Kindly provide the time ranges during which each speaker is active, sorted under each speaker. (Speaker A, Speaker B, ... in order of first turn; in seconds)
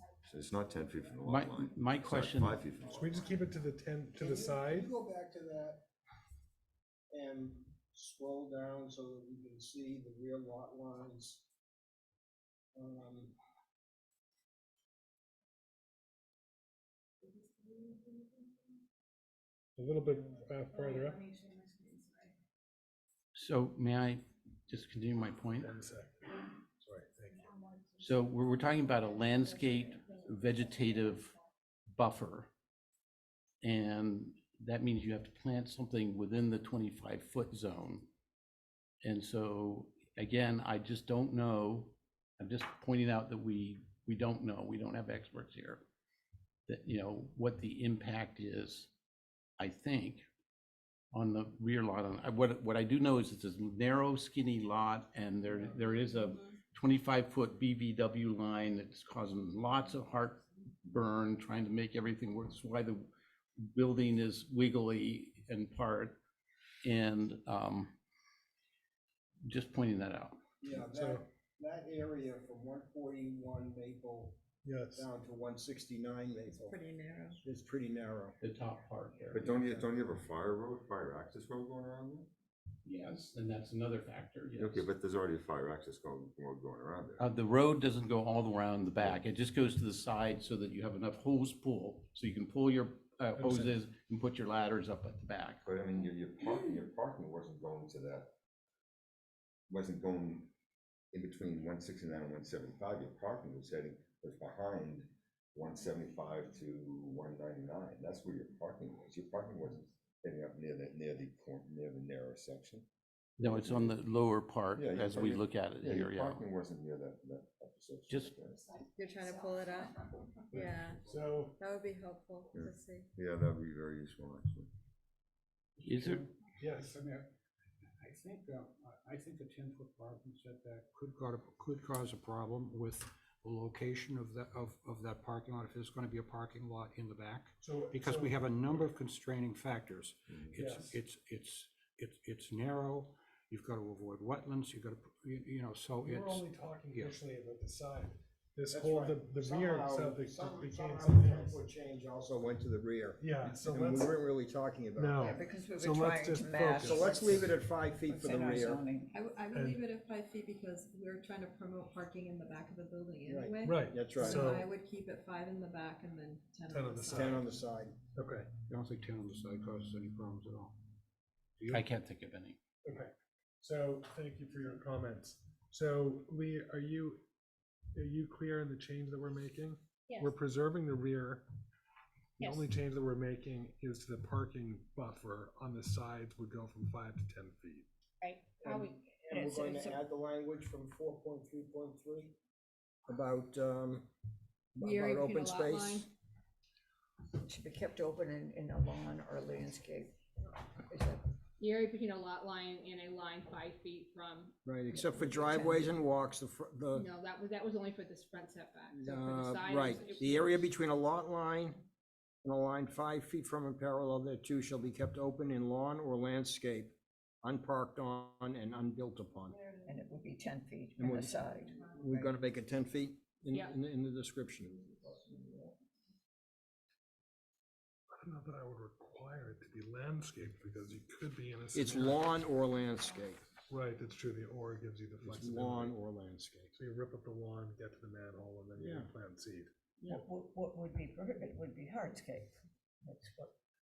Speaker A: 0.2-3.3, 79.3-82.3, 84.5-87.3, 95.6-98.3, 99.7-100.5, 101.1-112.9, 113.4-114.0, 114.7-118.6, 120.5-120.9, 122.5-124.7, 140.3-140.6, 224.7-225.7
Speaker B: 1.2-2.6, 23.3-25.7, 28.0-31.3, 31.9-32.5, 33.6-38.1, 39.0-45.8, 46.7-48.9, 49.6-50.2, 51.1-63.1, 63.6-66.2, 66.8-67.9, 69.4-70.4, 78.4-79.5, 82.8-84.9, 87.2-95.6, 113.4-116.5, 118.1-118.3, 125.8-126.2, 171.7-172.6
Speaker C: 2.9-4.9, 19.8-21.3, 25.6-27.6, 70.7-71.2, 74.6-75.1, 93.4-93.8, 120.5-121.6, 126.6-127.0, 137.6-138.9, 140.6-141.0, 146.0-151.6, 153.2-154.1, 154.9-157.5, 159.5-159.8, 163.6-164.7, 166.7-167.5, 168.1-168.5, 172.8-177.2, 177.9-181.4, 182.4-187.9, 228.2-232.3, 233.7-235.9, 236.7-239.7
Speaker D: 4.1-5.8, 7.1-11.4, 12.7-13.3, 70.6-74.4, 74.9-76.8, 77.4-78.4, 79.4-79.9, 148.7-155.4, 156.7-158.8, 163.3-164.5, 167.1-167.9, 188.6-192.3, 193.1-194.1, 194.7-196.1, 204.6-207.1, 208.9-211.8, 212.4-219.6, 221.0-224.8, 231.7-233.5, 235.2-236.7, 238.8-239.1
Speaker E: 76.5-77.4, 119.0-120.0, 120.5-121.0, 121.6-123.1, 159.1-167.4
Speaker F: 125.8-127.3, 128.0-147.2, 168.7-170.7, 171.6-171.8
Speaker G: 155.2-159.1, 189.3-190.0, 197.4-200.1, 200.8-201.2, 204.9-205.9, 219.8-222.3, 240.0-243.5
Speaker H: 182.4-182.7, 188.2-189.6, 194.8-196.1, 201.6-204.5, 206.9-210.7